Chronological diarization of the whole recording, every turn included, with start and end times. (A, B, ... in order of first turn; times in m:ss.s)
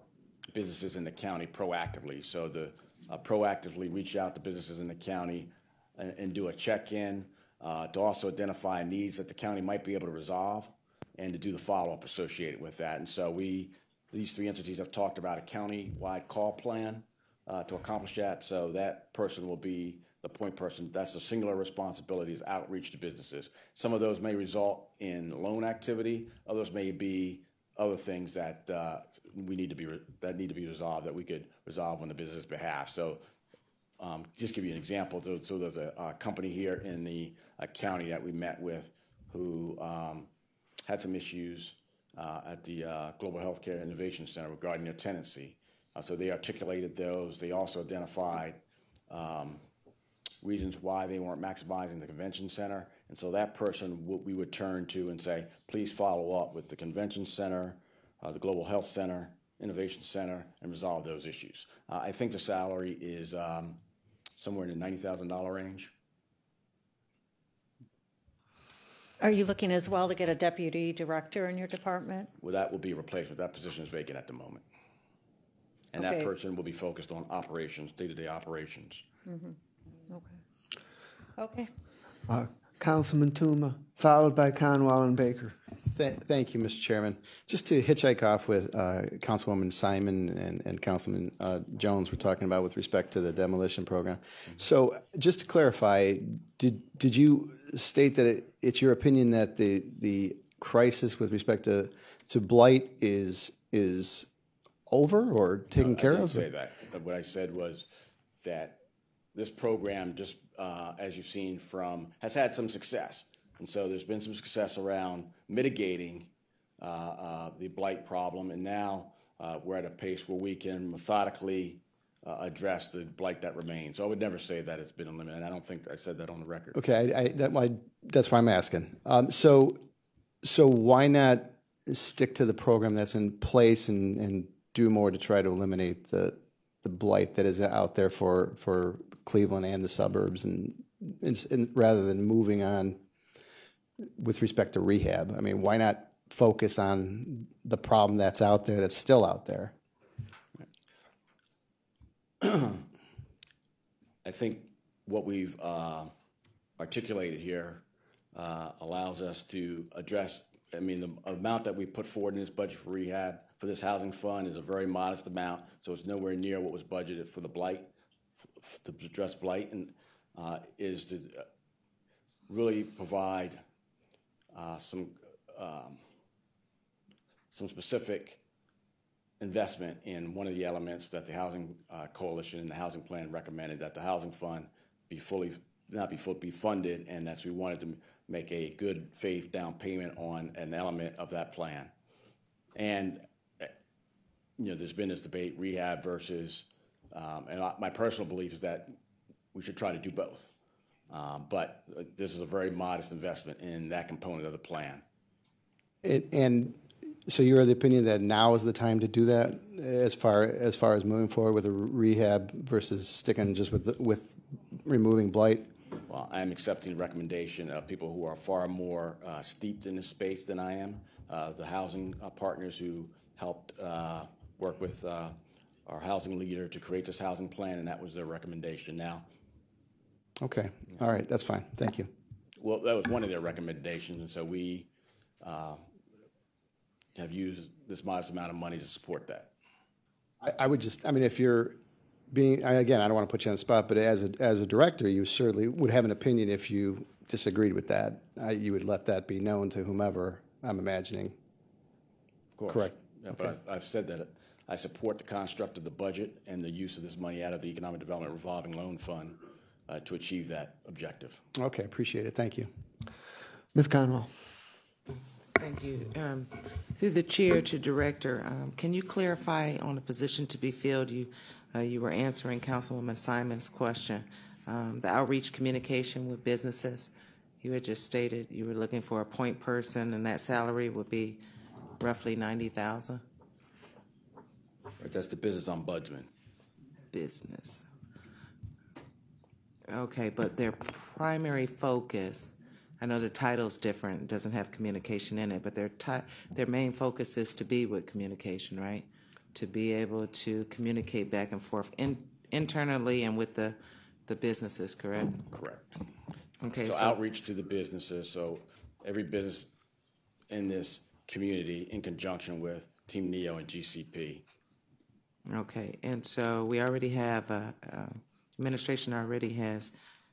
0:00.5-0:33.2 A
0:34.0-0:40.3 A
0:40.8-0:49.6 A
0:50.4-1:03.8 A
1:04.4-1:05.9 A
1:09.2-1:12.3 B
1:12.4-1:14.6 A
1:15.9-1:19.0 A
1:16.0-1:16.3 B
1:19.3-1:19.6 B
1:20.1-1:20.4 B
1:21.4-1:21.7 B
1:22.3-1:25.6 C
1:25.9-1:44.3 D
1:44.9-1:46.5 D
1:45.7-1:47.9 A
1:48.4-1:48.8 A
1:49.3-1:56.3 A
1:56.8-2:06.8 A
2:06.7-2:09.9 D
2:10.4-2:23.0 D
2:24.2-2:29.7 D
2:32.4-2:32.8 A
2:34.2-2:36.1 A
2:36.8-2:47.9 A
2:48.6-2:51.4 A
2:52.5-2:53.6 A
2:54.5-2:56.0 A
2:57.5-2:58.4 A
2:59.4-3:11.9 A
3:12.7-3:13.7 A
3:14.6-3:19.0 A
3:19.5-3:20.5 A
3:21.1-3:25.0 A
3:26.0-3:35.7 D
3:36.1-3:49.3 A
3:50.4-3:52.1 D
3:52.6-3:54.9 A
3:55.4-3:55.8 A
3:57.2-3:59.5 A
4:00.4-4:01.8 D
4:02.3-4:11.4 D
4:12.6-4:21.4 A
4:12.7-4:13.5 D
4:21.6-4:22.7 D
4:23.7-4:24.3 C
4:25.6-4:41.4 E
4:42.0-4:43.2 E
4:45.0-4:46.3 A
4:47.1-4:47.8 E
4:49.9-5:05.4 E
5:05.5-5:05.9 A
5:06.6-5:07.2 E
5:06.8-5:09.7 A
5:10.5-5:14.4 A
5:15.4-5:19.9 E